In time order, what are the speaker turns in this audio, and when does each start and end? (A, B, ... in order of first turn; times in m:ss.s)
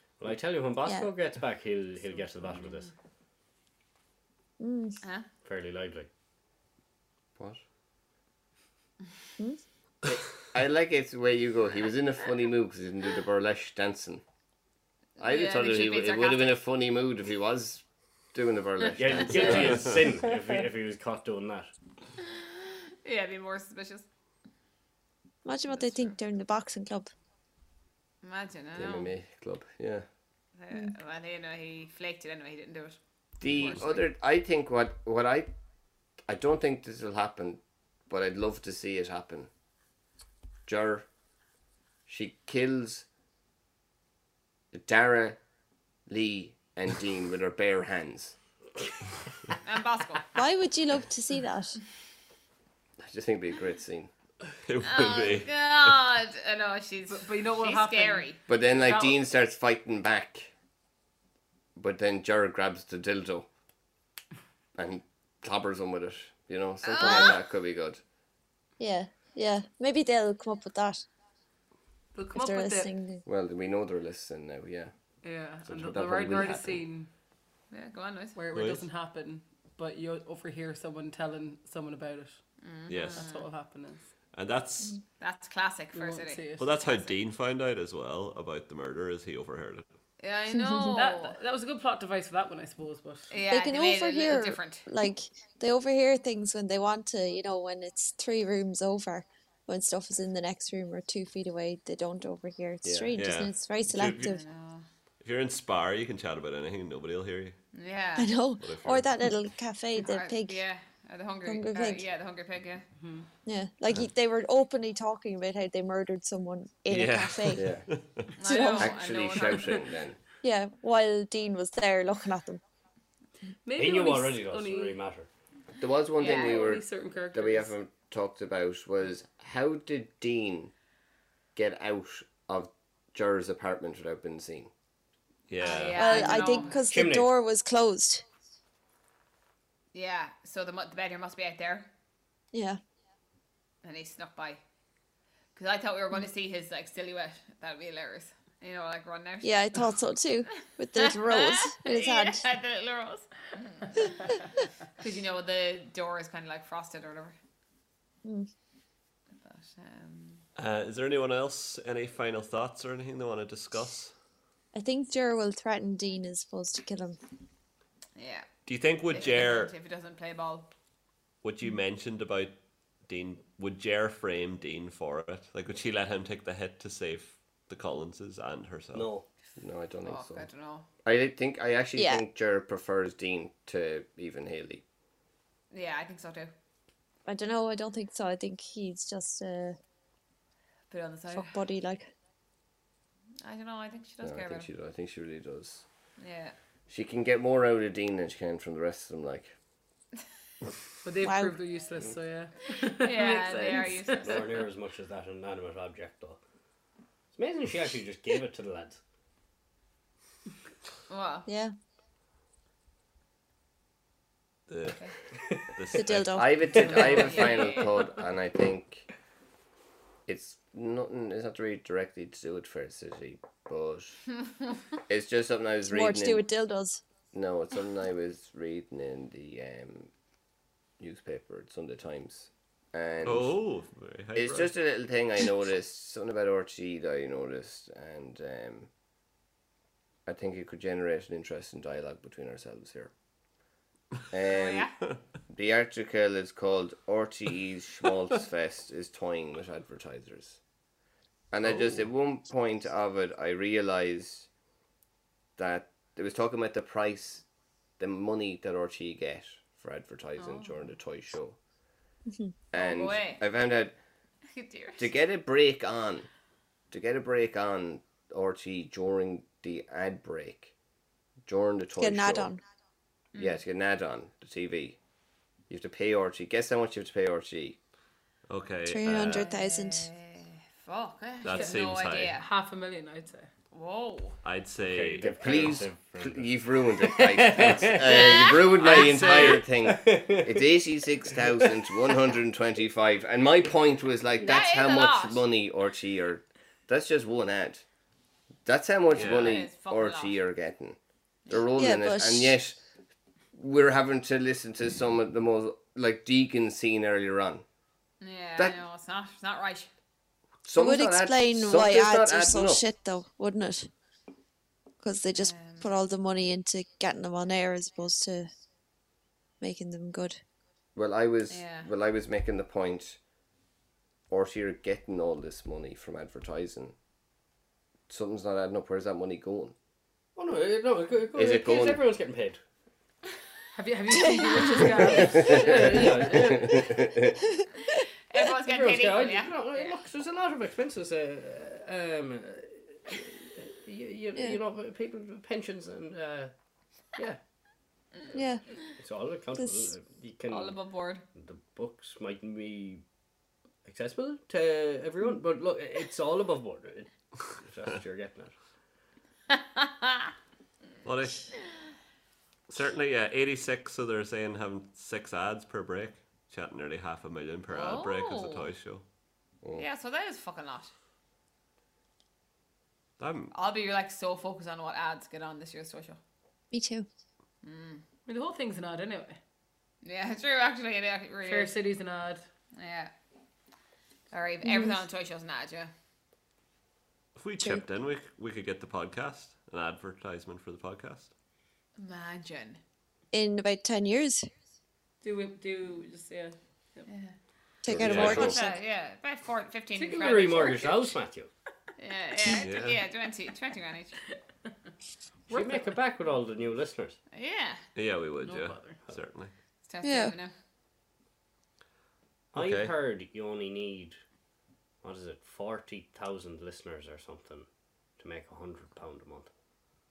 0:00.2-0:02.9 A
0:02.4-0:02.9 B
0:04.6-0:05.0 C
0:05.0-0:05.3 B
0:05.4-0:06.1 A
0:07.4-0:07.6 D
0:10.0-0:14.2 D
0:15.2-0:16.6 B
0:15.2-0:17.8 D
0:18.3-0:20.0 D
0:18.9-0:21.7 A
0:22.3-0:24.1 B
0:25.4-0:27.1 C
0:25.7-0:26.1 B
0:28.2-0:29.1 B
0:28.8-0:30.0 D
0:30.6-0:34.1 B
0:33.4-0:35.5 D
0:36.3-0:39.5 D
0:40.6-0:41.1 D
0:42.1-0:43.0 D
0:44.7-0:45.4 D
0:46.1-0:48.4 D
0:49.5-0:50.4 B
0:50.3-0:51.8 C
0:53.0-0:54.1 D
0:54.6-0:56.0 E
0:54.8-0:58.4 B
0:57.1-0:59.2 F
0:58.5-1:00.5 D
1:01.8-1:03.5 D
1:04.7-1:08.0 D
1:06.8-1:07.4 B
1:08.8-1:11.0 C
1:12.1-1:12.9 F
1:12.3-1:13.2 C
1:13.2-1:14.9 D
1:15.2-1:17.1 F
1:15.6-1:16.8 D
1:17.7-1:18.4 B
1:18.3-1:22.4 F
1:18.5-1:18.8 E
1:22.6-1:23.5 B
1:22.9-1:23.3 E
1:23.1-1:24.1 F
1:24.3-1:25.0 E
1:25.2-1:27.2 B
1:25.9-1:26.7 F
1:26.6-1:29.8 E
1:30.2-1:31.4 B
1:30.8-1:33.3 F
1:33.3-1:34.8 B
1:33.5-1:44.4 C
1:42.8-1:43.1 D
1:43.2-1:44.3 E
1:44.1-1:44.8 B
1:45.2-1:47.6 E
1:47.7-1:48.3 B
1:48.2-1:50.6 C
1:48.6-1:49.1 E
1:50.0-1:52.9 B
1:51.4-1:52.0 C
1:53.0-1:53.3 F
1:53.4-1:57.7 C
1:56.9-1:58.3 E
1:57.6-1:57.9 D
1:58.4-1:59.9 B
1:58.4-1:59.0 C
1:58.8-2:00.2 D
2:00.4-2:02.6 C
2:03.6-2:05.0 F
2:03.8-2:05.3 A
2:05.8-2:10.7 D
2:06.2-2:06.7 B
2:06.2-2:07.7 F
2:11.5-2:14.7 D
2:15.5-2:16.2 E
2:15.6-2:16.8 B
2:15.9-2:18.2 C
2:16.0-2:16.8 F
2:16.9-2:17.3 A
2:19.9-2:21.9 B
2:22.5-2:22.8 C
2:23.8-2:24.6 B
2:25.5-2:29.9 B
2:29.4-2:32.4 C
2:31.0-2:34.3 B
2:35.0-2:37.4 B
2:38.2-2:38.5 C
2:39.4-2:40.4 B
2:40.6-2:44.1 E
2:44.7-2:47.2 C
2:48.2-2:48.5 B
2:48.6-2:49.7 E
2:49.1-2:50.7 B
2:51.4-2:59.1 E
2:58.9-2:59.2 A
2:59.6-3:00.5 D
3:00.0-3:00.9 B
3:01.0-3:04.8 D
3:02.0-3:02.2 C
3:05.7-3:06.5 B
3:07.2-3:09.8 C
3:10.9-3:11.6 B
3:11.3-3:12.1 C
3:13.4-3:14.7 B
3:14.2-3:15.8 D
3:16.2-3:16.5 B
3:16.9-3:19.5 D
3:21.0-3:23.9 F
3:21.2-3:21.6 C
3:22.8-3:24.6 B
3:23.3-3:23.8 C
3:24.2-3:26.4 A
3:27.3-3:29.0 A
3:31.1-3:31.5 B
3:31.5-3:31.7 C
3:34.7-3:36.8 E
3:35.9-3:36.9 C
3:36.3-3:39.1 D
3:36.8-3:38.0 F
3:37.0-3:37.9 B
3:40.3-3:44.2 D
3:45.1-3:46.4 D
3:45.8-3:47.0 C
3:47.3-3:50.1 D
3:51.0-3:53.6 D
3:53.2-3:54.7 E
3:54.4-3:58.9 D
4:00.2-4:03.1 D
4:04.3-4:04.9 D
4:04.4-4:05.0 B
4:05.5-4:10.6 D
4:11.5-4:14.5 D
4:11.6-4:12.0 E
4:15.6-4:17.4 D
4:18.0-4:21.6 D
4:20.4-4:20.9 B
4:22.3-4:22.5 C
4:22.7-4:24.0 D
4:22.7-4:23.4 B
4:24.5-4:25.1 B
4:25.0-4:26.3 D
4:26.9-4:30.7 D
4:31.4-4:32.5 D
4:32.0-4:32.6 C
4:33.3-4:33.6 B
4:33.4-4:35.0 D
4:35.7-4:37.8 D
4:38.5-4:39.5 E
4:38.8-4:40.1 C
4:39.2-4:42.5 B
4:41.4-4:42.4 E
4:42.4-4:43.5 F
4:43.7-4:44.4 B
4:44.4-4:45.8 E
4:44.8-4:52.1 A
4:45.2-4:57.8 D
4:48.0-4:48.9 B
4:48.6-4:49.6 E
4:54.4-4:55.4 B
4:58.6-5:01.0 D
4:59.1-4:59.6 E
4:59.1-5:00.4 B
5:01.5-5:02.8 D
5:01.8-5:02.6 C
5:03.5-5:07.6 D
5:08.2-5:09.9 B
5:10.6-5:12.8 D
5:10.7-5:13.9 C
5:15.0-5:18.5 C
5:15.4-5:15.9 B
5:19.6-5:20.4 C
5:21.0-5:23.2 D
5:21.5-5:21.9 B
5:24.3-5:26.9 D
5:28.1-5:29.7 D
5:30.4-5:32.6 A
5:31.3-5:32.0 D
5:33.7-5:36.5 F
5:34.1-5:35.1 C
5:35.0-5:37.1 A
5:35.2-5:37.3 D
5:38.3-5:40.0 B
5:38.6-5:46.5 A
5:47.1-5:47.4 A
5:48.3-5:48.6 C
5:49.0-5:50.8 A
5:49.6-5:49.9 C
5:50.5-5:51.2 B
5:51.3-5:53.0 A
5:53.8-5:58.6 A
5:59.5-6:00.3 B
6:01.0-6:01.5 E
6:02.7-6:09.0 E
6:07.7-6:08.7 B
6:09.8-6:10.9 B
6:13.2-6:13.5 E
6:13.5-6:16.2 B
6:16.7-6:17.1 C
6:17.6-6:18.0 B
6:18.2-6:19.4 F
6:20.0-6:21.7 B
6:21.4-6:22.4 F
6:22.8-6:23.1 B
6:24.3-6:25.9 B
6:24.6-6:25.0 C
6:27.4-6:31.3 E
6:27.6-6:27.8 C
6:32.0-6:32.8 B
6:33.3-6:34.4 C
6:35.2-6:37.1 F
6:37.1-6:37.3 B
6:37.8-6:38.8 C
6:37.9-6:38.5 D
6:37.9-6:38.6 E
6:38.0-6:41.0 B
6:39.9-6:41.5 A
6:42.0-6:44.2 B
6:42.4-6:43.0 E
6:45.5-6:45.9 F
6:45.5-6:47.2 A
6:47.3-6:47.8 B
6:47.9-6:49.5 E
6:48.4-6:49.0 F
6:49.8-6:50.5 B
6:50.0-6:50.3 C
6:52.5-6:54.2 A
6:52.5-6:52.9 E
6:55.0-6:57.6 A
6:58.2-6:59.5 A